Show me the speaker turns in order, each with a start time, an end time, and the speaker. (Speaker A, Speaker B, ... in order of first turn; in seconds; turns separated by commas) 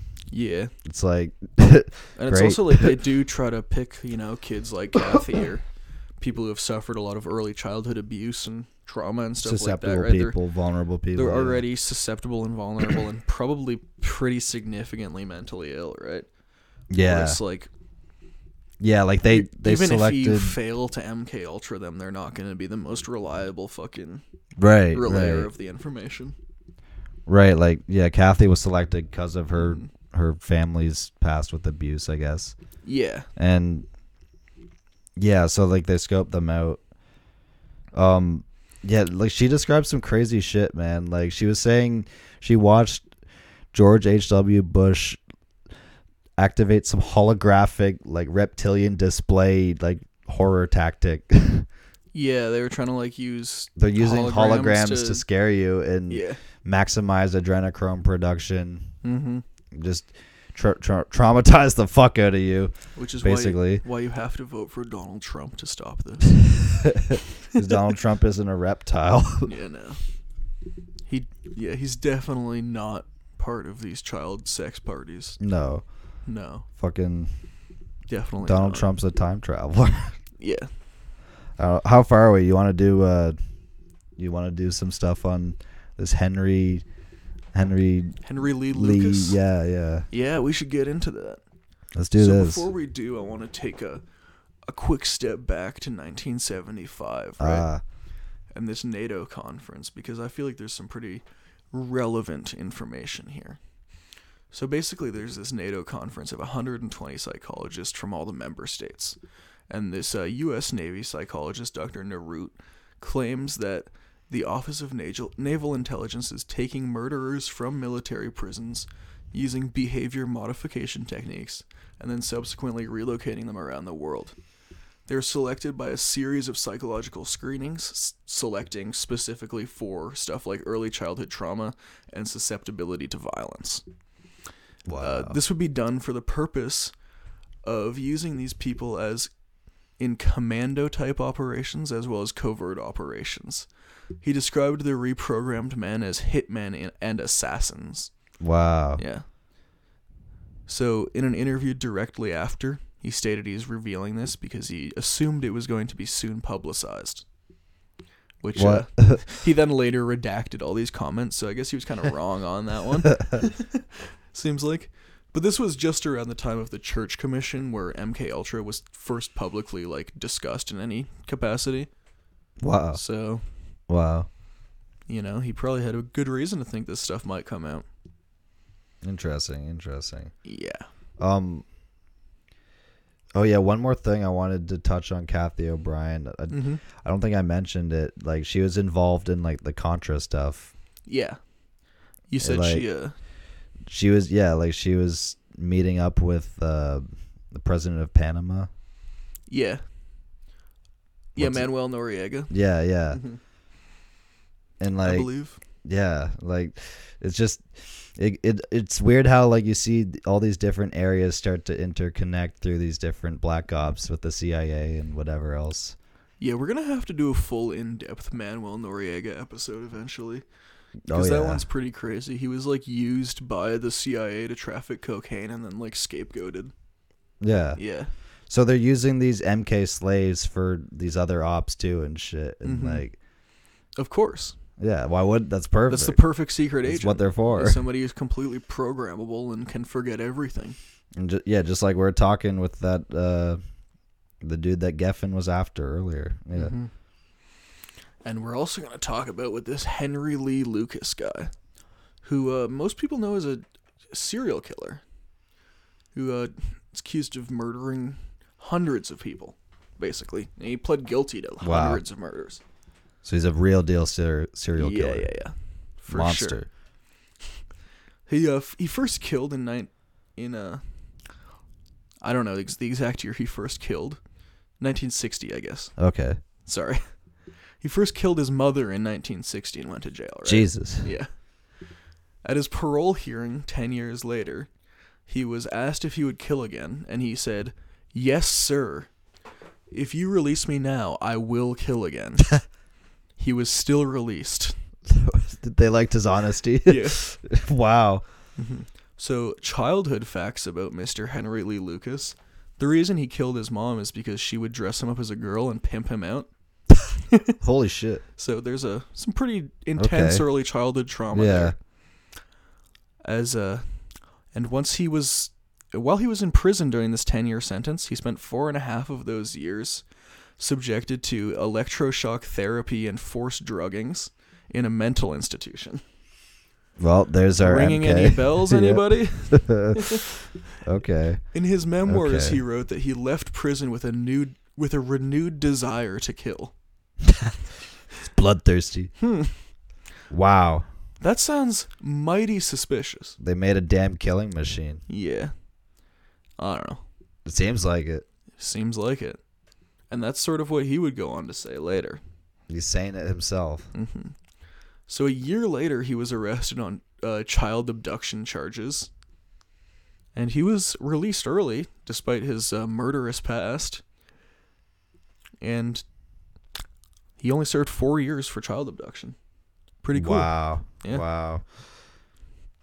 Speaker A: 0.3-0.7, Speaker B: 0.8-3.0, Speaker A: 2.1-5.6, Speaker A: 6.2-10.4, Speaker B: 9.4-11.6, Speaker A: 11.1-16.3, Speaker B: 16.9-17.4, Speaker A: 17.0-17.7, Speaker B: 18.8-20.6, Speaker A: 19.2-24.2, Speaker B: 24.6-25.5, Speaker A: 24.9-26.3, Speaker B: 27.3-32.5, Speaker A: 29.6-29.9, Speaker A: 32.8-33.3, Speaker B: 33.4-33.9, Speaker B: 35.2-36.8, Speaker B: 37.9-43.0, Speaker B: 43.7-45.2, Speaker B: 46.4-51.6, Speaker A: 52.1-55.2, Speaker B: 53.8-58.9, Speaker A: 56.1-56.4, Speaker A: 59.0-59.4, Speaker B: 59.7-63.8, Speaker A: 63.0-66.5, Speaker B: 66.6-69.5, Speaker A: 69.4-70.0, Speaker A: 71.1-75.4, Speaker B: 75.4-75.8, Speaker A: 76.2-76.7, Speaker B: 76.8-77.3, Speaker A: 78.1-78.9, Speaker B: 78.4-80.2, Speaker A: 80.4-80.7, Speaker B: 81.6-83.4, Speaker B: 84.2-86.8, Speaker B: 87.5-90.0, Speaker A: 88.2-89.4, Speaker A: 90.1-91.4, Speaker B: 91.9-92.7, Speaker A: 92.1-94.0, Speaker A: 94.7-97.7, Speaker B: 97.4-97.8, Speaker A: 98.5-103.6, Speaker A: 104.5-109.2, Speaker A: 109.7-124.3, Speaker A: 125.1-133.8, Speaker B: 134.8-135.4, Speaker A: 135.0-136.9, Speaker A: 137.6-139.3, Speaker A: 140.0-143.7, Speaker A: 144.2-148.1, Speaker B: 148.4-149.0, Speaker A: 149.0-149.2, Speaker A: 150.7-157.2, Speaker A: 158.4-171.9, Speaker B: 158.6-159.2, Speaker B: 172.6-173.0, Speaker A: 172.9-173.4, Speaker B: 173.9-174.3, Speaker A: 175.1-177.8, Speaker B: 179.0-180.3, Speaker A: 180.4-180.9, Speaker B: 181.2-181.6, Speaker B: 183.3-190.7, Speaker A: 186.5-186.8, Speaker A: 191.1-191.4, Speaker A: 192.3-193.1, Speaker B: 192.4-192.8, Speaker B: 193.8-198.7, Speaker A: 199.5-199.8, Speaker A: 201.3-202.5, Speaker B: 201.3-201.7, Speaker B: 202.5-203.2, Speaker A: 203.1-203.4, Speaker B: 204.8-205.3, Speaker A: 205.0-205.6, Speaker B: 205.8-207.6, Speaker B: 208.2-215.9, Speaker A: 216.4-220.4, Speaker B: 221.1-221.6, Speaker A: 221.1-226.7, Speaker B: 227.4-227.8, Speaker A: 227.8-228.1, Speaker B: 228.5-233.2, Speaker A: 232.6-233.1, Speaker A: 234.0-234.5, Speaker B: 234.8-236.2, Speaker A: 235.9-240.8, Speaker B: 236.8-237.8, Speaker B: 241.2-243.6, Speaker B: 244.4-246.7, Speaker A: 246.5-246.9, Speaker A: 248.2-251.5, Speaker A: 252.2-255.0, Speaker A: 256.1-262.6, Speaker B: 261.6-262.0, Speaker B: 263.2-265.3, Speaker A: 264.8-266.6, Speaker B: 266.1-266.7, Speaker A: 268.3-270.8, Speaker A: 272.2-274.2, Speaker A: 274.8-275.9, Speaker B: 276.0-276.4, Speaker A: 276.6-281.3, Speaker B: 280.4-281.1, Speaker A: 282.4-284.7, Speaker A: 285.3-289.1, Speaker A: 289.9-292.6, Speaker A: 293.4-294.7, Speaker B: 295.1-298.2, Speaker A: 296.8-297.3, Speaker A: 298.6-306.5, Speaker A: 307.3-307.6, Speaker B: 307.6-308.2, Speaker A: 308.4-311.7, Speaker B: 310.0-310.4, Speaker B: 311.3-311.7, Speaker A: 313.2-313.9, Speaker A: 314.5-320.0, Speaker A: 320.6-326.0, Speaker B: 327.0-330.2, Speaker A: 327.6-330.2, Speaker B: 330.8-331.4, Speaker A: 331.5-336.7, Speaker B: 332.1-332.6, Speaker B: 338.2-339.1, Speaker A: 339.2-339.5, Speaker B: 340.3-340.9, Speaker A: 341.2-343.4, Speaker B: 343.4-345.0, Speaker A: 345.1-345.5, Speaker A: 346.6-347.0, Speaker B: 347.4-348.2, Speaker A: 348.6-349.4, Speaker A: 350.1-352.2, Speaker B: 352.7-353.9, Speaker A: 353.9-354.4, Speaker A: 355.1-359.1, Speaker A: 360.3-364.0, Speaker A: 365.6-366.0, Speaker A: 367.4-369.4, Speaker A: 370.0-371.2, Speaker B: 370.1-371.6